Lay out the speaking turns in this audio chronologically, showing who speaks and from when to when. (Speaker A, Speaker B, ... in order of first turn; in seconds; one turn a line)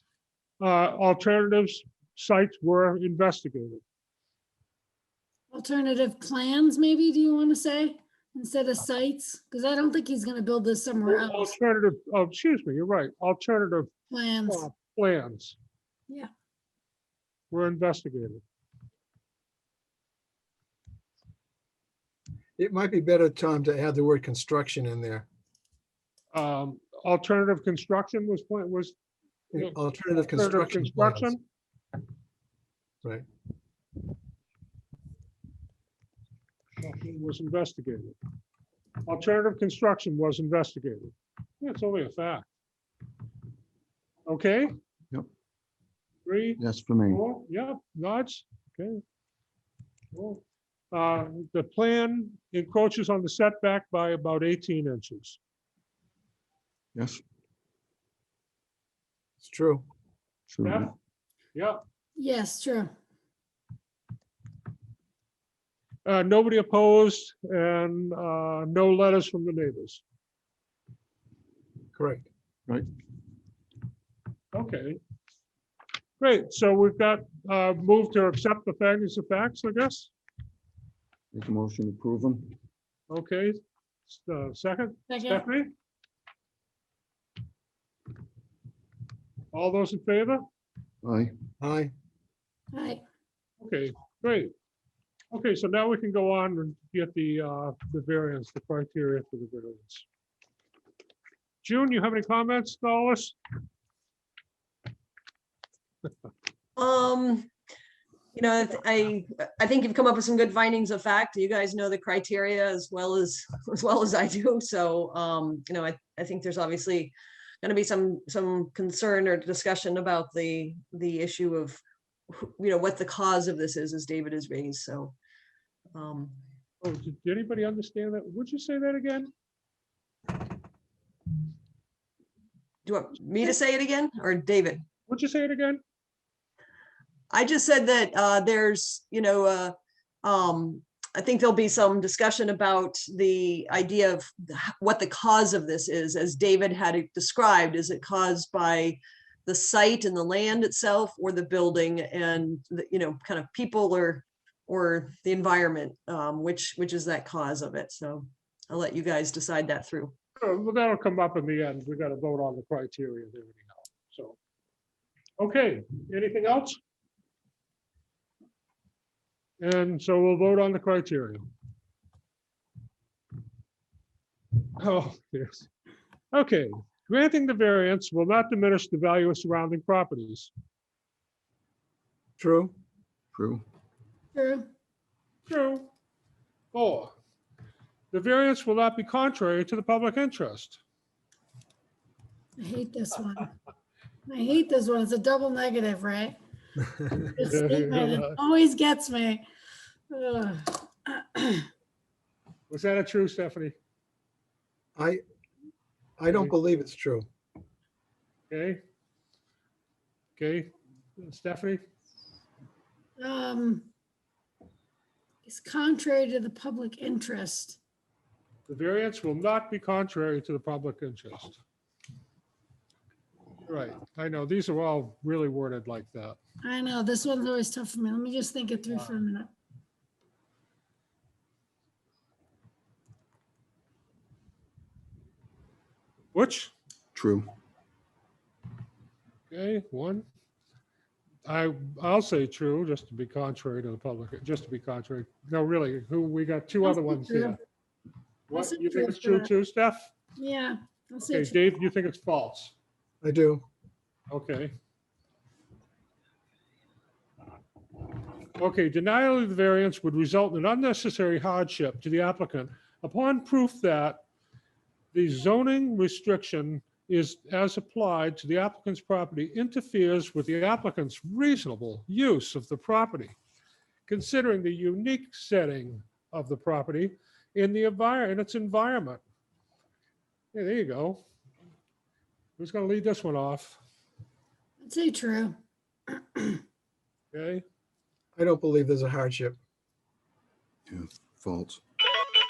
Speaker A: 0.6-3.8
Speaker B: 5.5-11.5
Speaker A: 11.1-13.9
Speaker B: 14.1-14.7
Speaker A: 14.5-15.6
Speaker A: 17.5-18.4
Speaker C: 22.6-25.2
Speaker A: 26.3-28.9
Speaker C: 29.5-31.3
Speaker A: 30.3-31.4
Speaker A: 36.8-38.2
Speaker A: 39.0-42.5
Speaker A: 44.3-44.8
Speaker A: 46.3-49.0
Speaker D: 46.6-47.2
Speaker A: 50.1-55.4
Speaker D: 57.0-57.2
Speaker C: 59.4-59.8
Speaker D: 60.5-60.9
Speaker A: 60.6-60.9
Speaker A: 61.5-61.8
Speaker B: 62.2-62.9
Speaker A: 66.0-70.0
Speaker C: 72.0-72.3
Speaker A: 74.5-75.0
Speaker A: 76.2-80.1
Speaker D: 81.3-82.6
Speaker A: 83.1-85.7
Speaker B: 85.1-85.5
Speaker A: 89.5-90.4
Speaker D: 91.0-91.3
Speaker C: 91.6-91.9
Speaker B: 92.7-93.0
Speaker A: 93.6-94.5
Speaker A: 95.3-100.0
Speaker A: 101.6-103.4
Speaker E: 106.8-107.5
Speaker E: 108.3-125.1
Speaker E: 125.9-126.4
Speaker A: 126.8-129.3
Speaker E: 132.8-134.8
Speaker A: 135.1-135.8
Speaker E: 137.3-160.1
Speaker A: 160.4-164.3
Speaker A: 165.4-166.8
Speaker A: 169.6-171.4
Speaker A: 174.8-175.7
Speaker A: 176.3-180.5
Speaker C: 182.4-182.7
Speaker D: 183.3-183.6
Speaker B: 184.3-184.7
Speaker A: 185.5-185.9
Speaker A: 186.7-187.1
Speaker A: 188.1-190.8
Speaker B: 192.6-193.5
Speaker B: 194.3-196.4
Speaker B: 197.0-199.4
Speaker A: 197.4-198.3
Speaker B: 200.1-201.7
Speaker A: 202.7-203.7
Speaker C: 206.2-207.3
Speaker A: 208.5-208.8
Speaker A: 210.4-211.8
Speaker B: 213.2-213.9
Speaker B: 215.4-217.8
Speaker A: 218.7-221.6
Speaker A: 223.7-226.4
Speaker B: 226.6-229.5
Speaker A: 228.9-229.2
Speaker A: 236.3-236.7
Speaker D: 237.1-237.5
Speaker A: 239.5-240.2
Speaker A: 241.4-247.6
Speaker B: 246.8-247.6
Speaker A: 248.5-250.1
Speaker B: 248.5-249.5
Speaker B: 250.4-251.6
Speaker A: 251.2-252.7
Speaker C: 253.2-253.6
Speaker A: 254.3-254.7
Speaker A: 258.6-264.2
Speaker A: 265.1-273.3
Speaker A: 274.1-279.2
Speaker A: 280.5-281.2
Speaker A: 282.6-283.8
Speaker B: 284.8-285.6
Speaker B: 286.1-286.6
Speaker A: 287.3-287.6
Speaker C: 288.4-289.6
Speaker D: 290.9-291.8